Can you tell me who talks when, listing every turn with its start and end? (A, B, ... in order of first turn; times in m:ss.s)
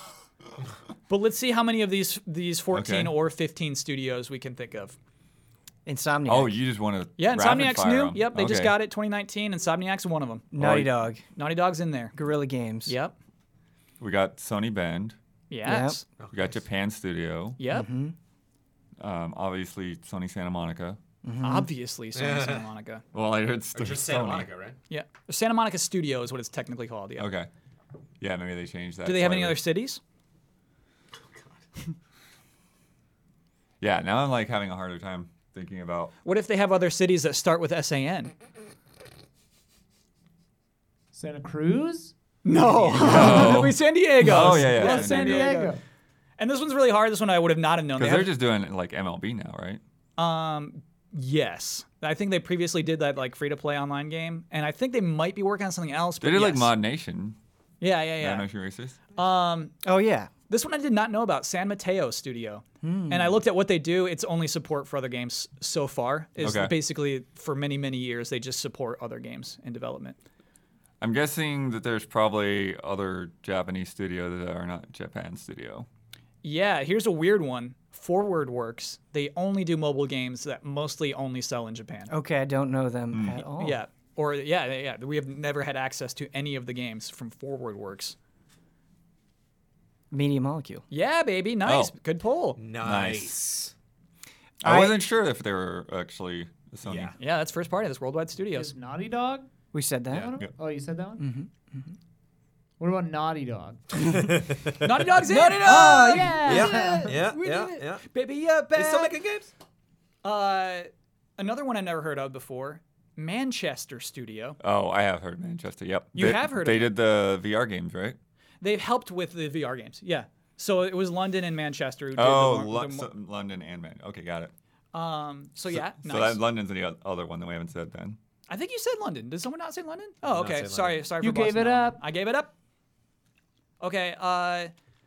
0:01.1-0:05.0 A
0:02.7-0:03.1 B
0:05.9-0:06.6 C
0:06.3-0:08.8 B
0:07.2-0:12.2 A
0:10.5-0:11.2 C
0:12.2-0:13.0 C
0:12.9-0:13.2 A
0:14.0-0:15.2 B
0:15.5-0:16.0 A
0:15.6-0:16.0 C
0:16.2-0:16.6 D
0:16.3-0:17.6 B
0:17.6-0:17.9 A
0:17.7-0:18.2 C
0:19.0-0:21.0 B
0:21.2-0:21.7 C
0:21.4-0:23.0 A
0:22.2-0:22.6 D
0:23.1-0:24.5 B
0:23.7-0:24.8 D
0:24.9-0:27.3 A
0:27.2-0:27.5 B
0:28.2-0:29.6 B
0:29.0-0:30.0 A
0:33.8-0:36.1 B
0:36.2-0:38.3 A
0:41.1-0:42.2 E
0:42.4-0:45.7 A
0:42.9-0:45.6 B
0:44.6-0:45.8 E
0:46.4-0:48.3 A
0:48.0-0:49.8 B
0:50.2-0:56.7 A
0:56.2-0:57.4 B
0:57.8-0:58.5 A
0:58.2-0:59.0 B
0:59.2-0:59.7 A
0:59.8-1:00.3 C
1:00.5-1:10.2 A
1:02.8-1:03.4 C
1:06.4-1:06.7 B
1:11.0-1:15.9 B
1:16.4-1:22.1 A
1:22.1-1:23.8 C
1:23.1-1:23.4 B
1:23.6-1:28.2 A
1:30.1-1:30.8 C
1:30.9-1:32.6 A
1:31.6-1:31.9 B
1:32.6-1:33.7 D
1:32.8-1:33.4 B
1:34.6-1:37.2 B
1:34.6-1:35.0 C
1:36.8-1:37.2 D
1:37.2-1:38.7 A
1:38.5-1:39.5 E
1:39.7-1:40.3 C
1:40.1-1:41.2 E
1:41.2-1:41.9 C
1:42.8-1:44.2 E
1:44.0-1:44.9 D
1:44.8-1:49.2 A
1:45.2-1:47.2 C
1:45.7-1:47.1 E
1:46.5-1:48.0 D
1:48.7-1:49.5 D
1:50.2-1:54.6 A
1:54.6-1:58.2 B
1:56.2-1:56.9 A
1:58.6-2:03.1 A
2:02.2-2:04.5 B
2:04.9-2:06.4 A
2:05.7-2:08.2 B
2:08.5-2:12.5 A
2:10.2-2:11.0 D
2:11.2-2:12.0 E
2:13.8-2:14.7 A